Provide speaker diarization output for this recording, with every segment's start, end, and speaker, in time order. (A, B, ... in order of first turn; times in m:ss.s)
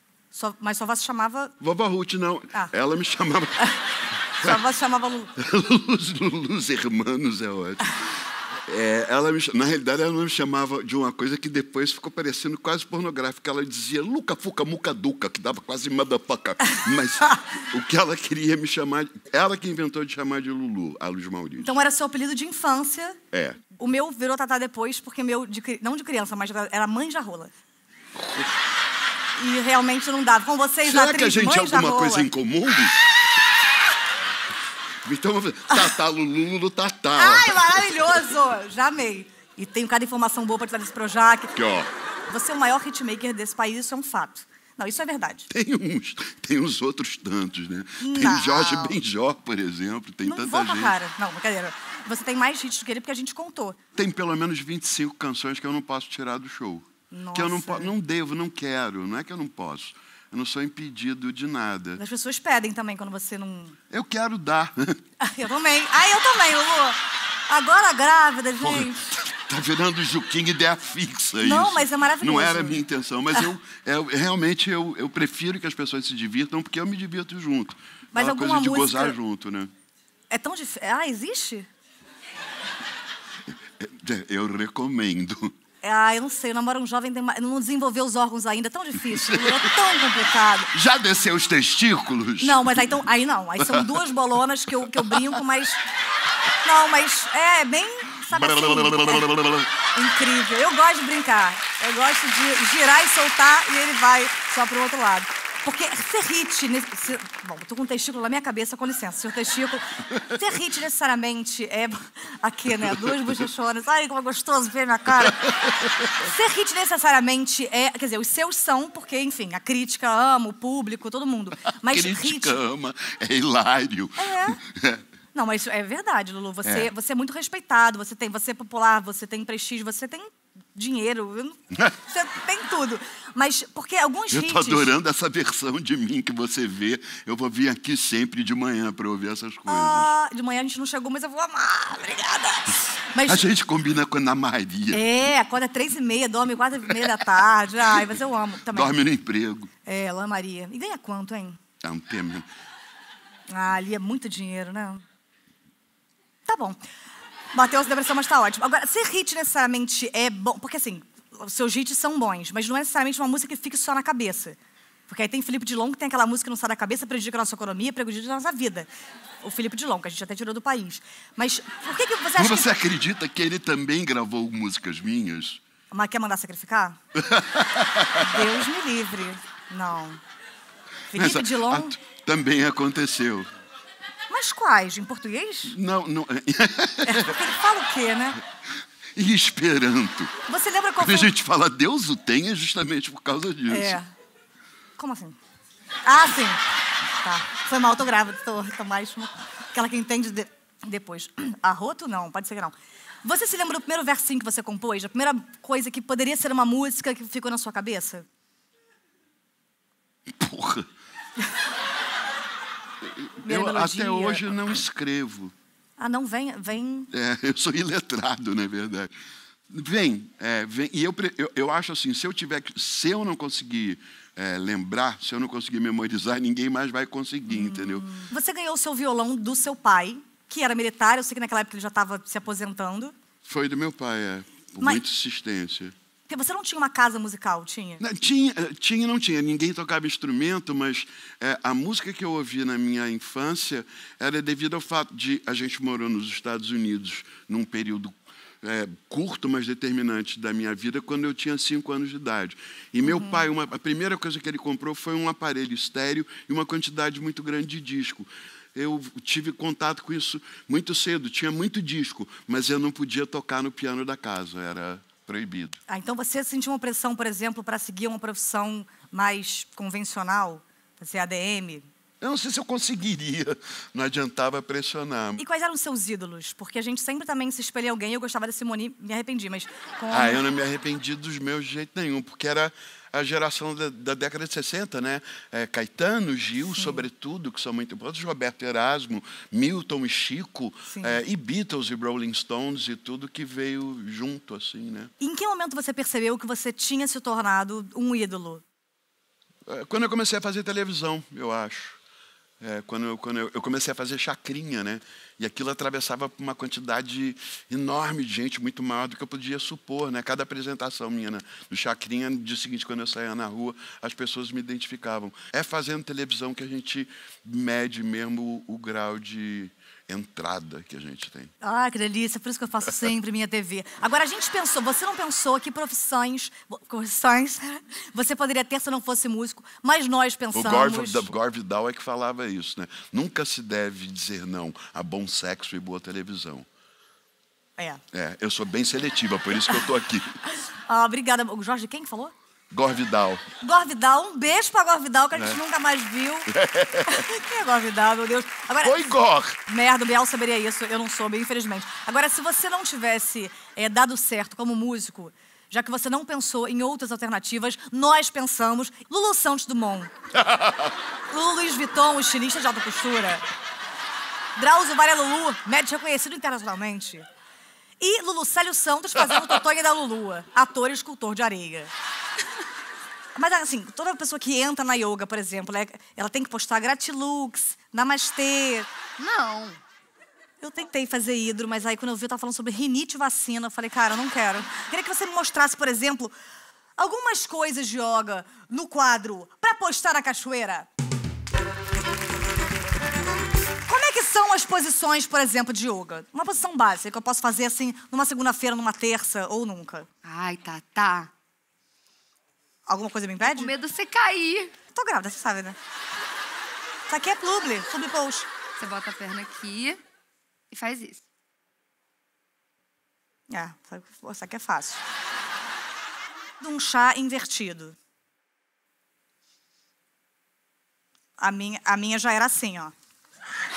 0:00.3-0:01.5 A
0:01.6-0:03.7 B
0:04.4-0:05.3 A
0:05.4-0:08.0 B
0:08.7-0:21.8 B
0:21.6-0:23.2 A
0:23.3-0:23.6 B
0:23.8-0:27.5 A
0:28.2-0:28.4 B
0:29.4-0:32.3 A
0:30.8-0:33.0 B
0:35.0-0:38.1 B
0:37.2-0:41.5 A
0:41.5-0:41.9 B
0:42.3-0:45.5 A
0:45.5-0:51.0 B
0:48.0-0:49.0 A
0:50.2-0:53.8 A
0:53.9-1:02.0 B
0:57.1-0:57.9 A
1:02.0-1:03.8 A
1:03.9-1:05.0 B
1:05.2-1:09.2 A
1:08.6-1:19.7 B
1:11.4-1:12.8 A
1:18.1-1:19.2 A
1:20.3-1:21.7 A
1:23.8-1:25.5 B
1:25.8-1:30.7 A
1:29.1-1:29.7 B
1:30.7-1:32.9 B
1:32.4-1:35.8 A
1:33.6-1:34.0 B
1:36.6-1:39.3 A
1:38.3-1:39.7 B
1:39.8-2:02.6 A
1:52.8-1:53.1 B
1:55.1-1:56.1 B
2:01.8-2:05.0 B
2:04.2-2:04.6 A
2:05.3-2:14.9 A
2:06.6-2:06.9 B
2:14.3-2:20.1 B
2:19.7-2:23.4 A
2:23.2-2:25.0 B
2:24.9-2:29.0 A
2:28.7-2:29.7 B
2:29.8-2:31.6 A
2:31.8-2:32.5 B
2:33.5-2:35.0 A
2:36.5-2:36.8 A
2:37.5-2:48.9 A
2:49.4-2:52.7 A
2:52.4-2:55.6 B
2:55.9-2:57.0 A
2:57.1-2:58.6 B
2:58.2-3:00.2 A
3:01.1-3:02.0 A
3:01.1-3:03.5 B
3:04.3-3:05.8 A
3:05.6-3:07.5 B
3:07.0-3:08.4 A
3:09.1-3:10.3 B
3:10.5-3:11.3 A
3:11.0-3:14.0 B
3:13.7-3:14.1 A
3:15.0-3:15.4 A
3:16.0-3:16.6 A
3:17.2-3:28.2 A
3:30.3-3:30.9 B
3:33.0-3:35.5 B
3:33.4-3:34.6 A
3:36.0-3:37.1 A
3:37.1-3:39.1 B
3:39.7-3:48.1 B
3:47.5-3:53.1 A
3:53.4-3:55.9 B
3:56.3-3:58.0 A
3:58.0-4:25.8 B
4:13.0-4:13.5 A
4:25.9-4:31.9 A
4:32.2-4:35.4 B
4:35.4-4:40.4 A
4:40.1-4:55.1 B
4:46.7-4:47.0 A
4:50.9-4:51.2 A
4:55.2-4:58.6 A
4:59.6-5:02.0 B
5:02.6-5:21.5 B
5:21.6-5:31.3 A
5:30.5-5:36.7 B
5:38.1-5:40.4 B
5:40.7-5:42.3 A
5:42.7-5:43.4 B
5:43.6-5:46.5 A
5:45.3-5:45.6 B
5:46.5-5:47.3 B
5:47.0-5:49.2 A
5:48.8-5:49.6 B
5:49.7-6:00.1 A
6:00.3-6:00.9 B
6:01.3-6:03.4 A
6:04.6-6:07.3 A
6:08.0-6:11.9 A
6:13.3-6:18.9 A
6:19.2-6:19.8 C
6:20.6-6:26.3 A
6:27.0-6:30.9 A
6:33.9-6:40.1 A
6:40.2-6:41.3 C
6:42.9-6:43.7 A
6:43.4-6:44.7 C
6:44.9-6:45.8 A
6:47.1-6:48.5 A
6:48.8-6:50.0 C
6:50.7-6:51.2 C
6:53.5-6:55.0 A
6:56.6-6:58.0 A
7:01.4-7:02.9 A